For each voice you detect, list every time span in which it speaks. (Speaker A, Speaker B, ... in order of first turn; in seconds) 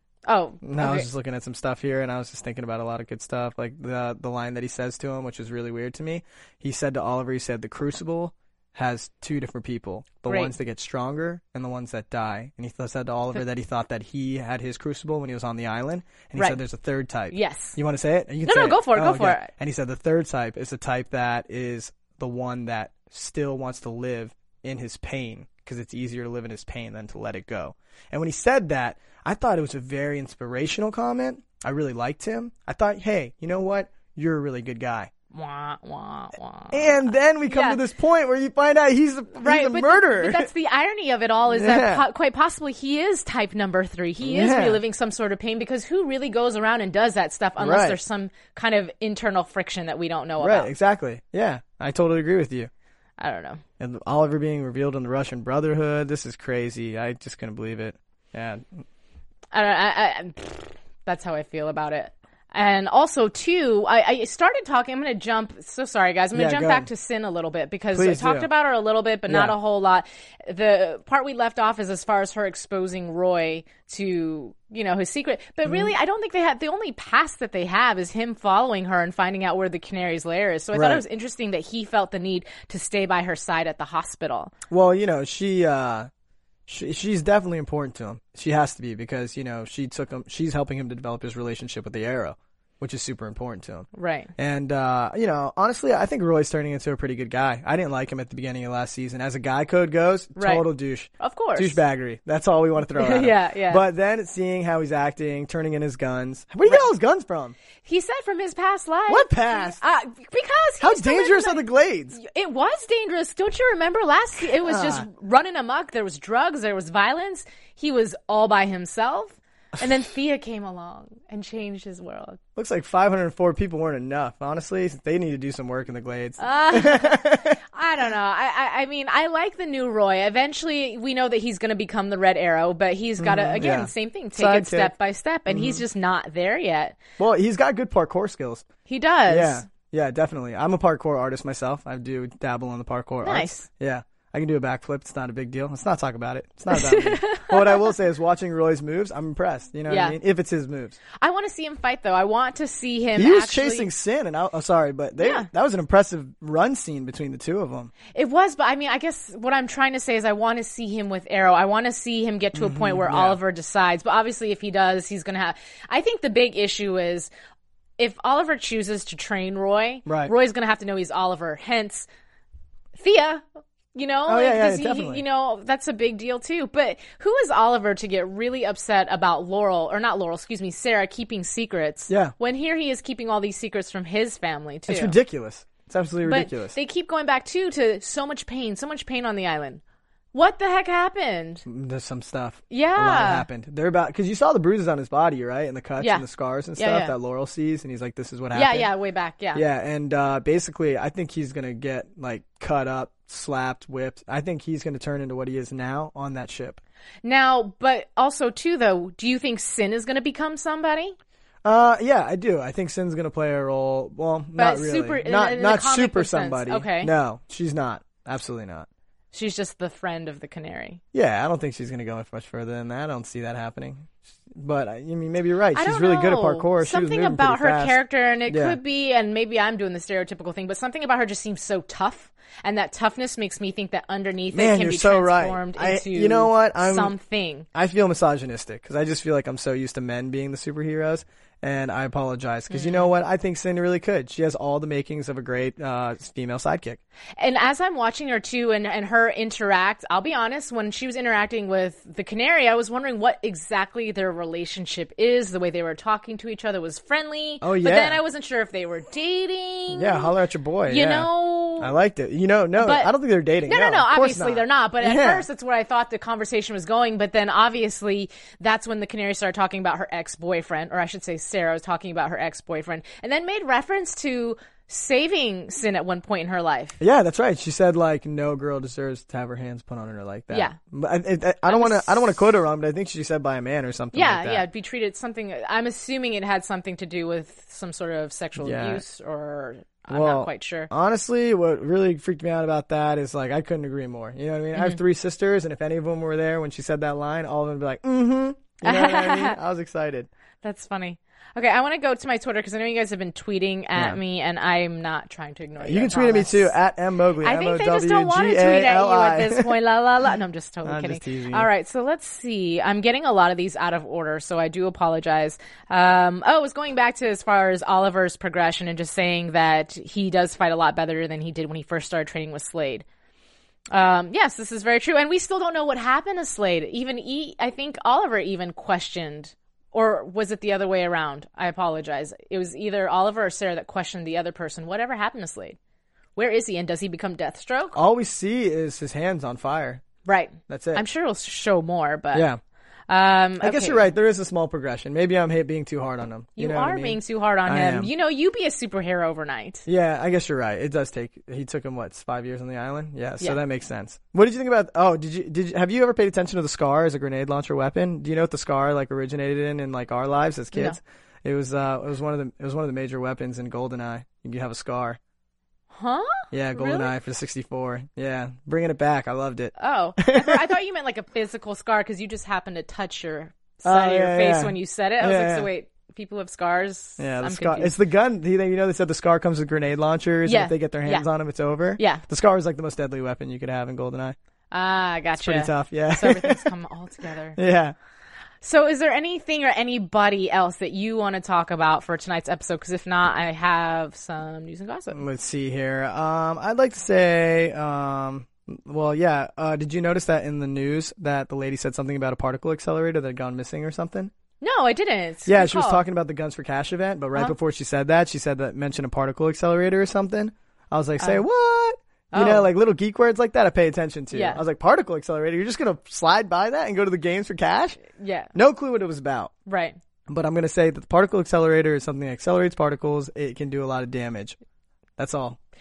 Speaker A: 0.3-1.1, 10.3-10.5, 17.3-17.8, 18.4-19.5, 35.3-37.8, 39.4-50.7, 53.2-53.6, 59.5-84.5, 93.9-94.3, 100.4-100.7, 101.2-101.8, 103.0-103.8, 107.8-122.4, 126.4-137.0, 138.9-139.7, 143.2-143.7, 146.7-147.9, 149.9-150.2, 151.2-153.9, 155.2-155.5, 158.1-167.3, 168.0-172.1, 173.0-185.2, 186.2-189.8, 190.3-191.6, 192.7-193.5, 196.0-197.2, 198.5-199.6, 207.2-211.2, 214.6-217.1, 219.3-221.0, 225.8-237.7, 242.7-243.1, 247.4-260.3, 260.9-261.9, 262.8-263.1, 263.6-277.0, 280.5-280.8, 281.7-282.2, 284.1-290.9, 298.8-299.6, 300.6-306.8, 307.4-323.1, 323.9-335.8, 336.4-338.0, 340.2-342.5, 343.1-344.0, 346.6-349.9, 360.7-361.0, 365.9-367.1, 369.8-377.9, 380.5-381.3, 382.0-382.2, 384.7-387.6, 388.6-395.2, 404.6-406.0, 411.2-411.4, 412.3-412.7, 414.3-414.6, 418.1-418.5, 419.7-420.0
Speaker B: 0.6-35.1, 36.7-40.5, 41.5-42.0, 44.2-44.8, 47.6-48.0, 50.4-52.7, 53.8-58.8, 66.3-66.9, 67.9-68.5, 69.3-69.6, 75.7-75.9, 80.7-81.0, 84.7-86.1, 86.7-107.6, 109.1-109.8, 110.8-112.2, 114.6-115.1, 122.6-127.6, 133.2-134.9, 135.5-135.8, 137.2-138.7, 139.3-151.0, 153.2-157.9, 162.6-163.4, 170.1-170.3, 174.3-175.2, 182.1-182.3, 184.9-186.8, 191.7-198.9, 199.5-206.8, 211.6-218.9, 221.1-228.8, 234.5-237.2, 237.7-247.0, 257.6-258.2, 259.9-265.5, 277.0-284.7, 288.6-289.0, 290.1-300.3, 305.8-309.7, 310.8-311.7, 337.9-340.0, 340.7-341.0, 342.3-342.6, 343.6-348.1, 349.9-365.2, 366.5-370.8, 373.8-375.7, 377.2-384.4, 385.4-386.7, 387.6-387.9, 395.1-404.3, 405.5-418.0, 418.5-419.5, 420.3-424.6, 425.2-425.6